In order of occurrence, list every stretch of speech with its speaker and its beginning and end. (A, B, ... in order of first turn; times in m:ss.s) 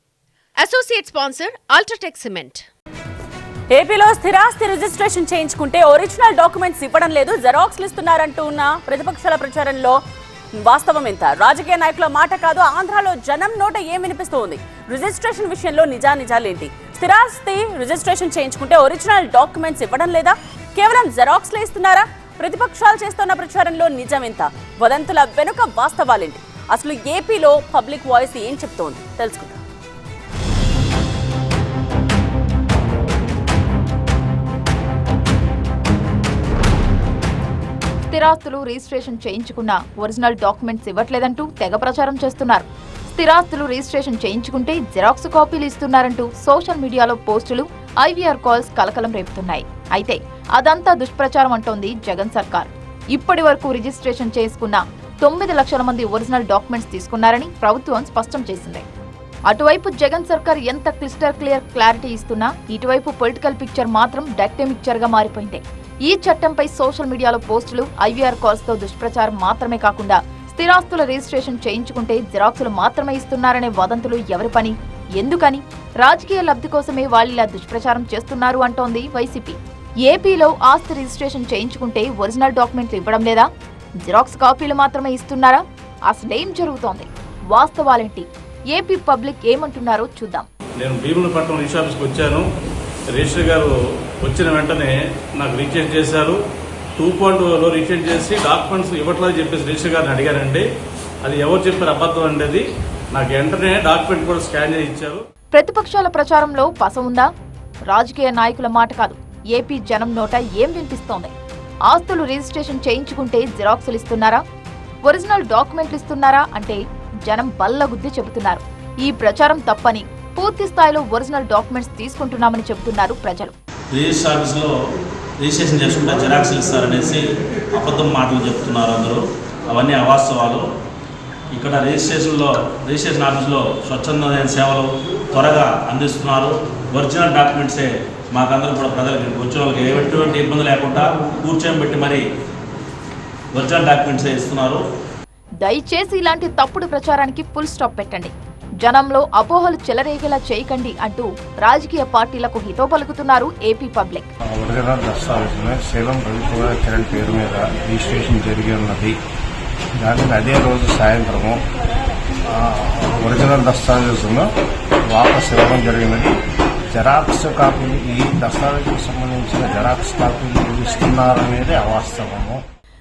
0:00.6-0:02.6 A
0:03.7-0:10.0 B
0:10.6-0:29.6 B
0:38.1-0:58.8 C
0:59.5-1:23.5 C
1:24.1-1:30.5 C
1:30.8-1:32.4 D
1:33.2-1:33.7 D
1:34.2-1:36.3 D
1:37.0-1:40.6 D
1:41.2-1:42.6 D
1:43.1-1:45.1 D
1:45.5-1:47.3 C
1:47.9-1:51.3 C
1:51.9-1:54.4 C
1:55.1-2:03.5 C
2:03.9-2:04.7 E
2:05.4-2:07.2 E
2:07.8-2:09.2 E
2:09.7-2:10.6 E
2:11.5-2:22.2 E
2:23.5-2:24.8 E
2:25.6-2:34.3 C
2:34.5-2:39.1 F
2:40.0-2:41.6 F
2:42.5-2:44.4 F
2:45.1-2:46.3 F
2:46.9-2:52.6 F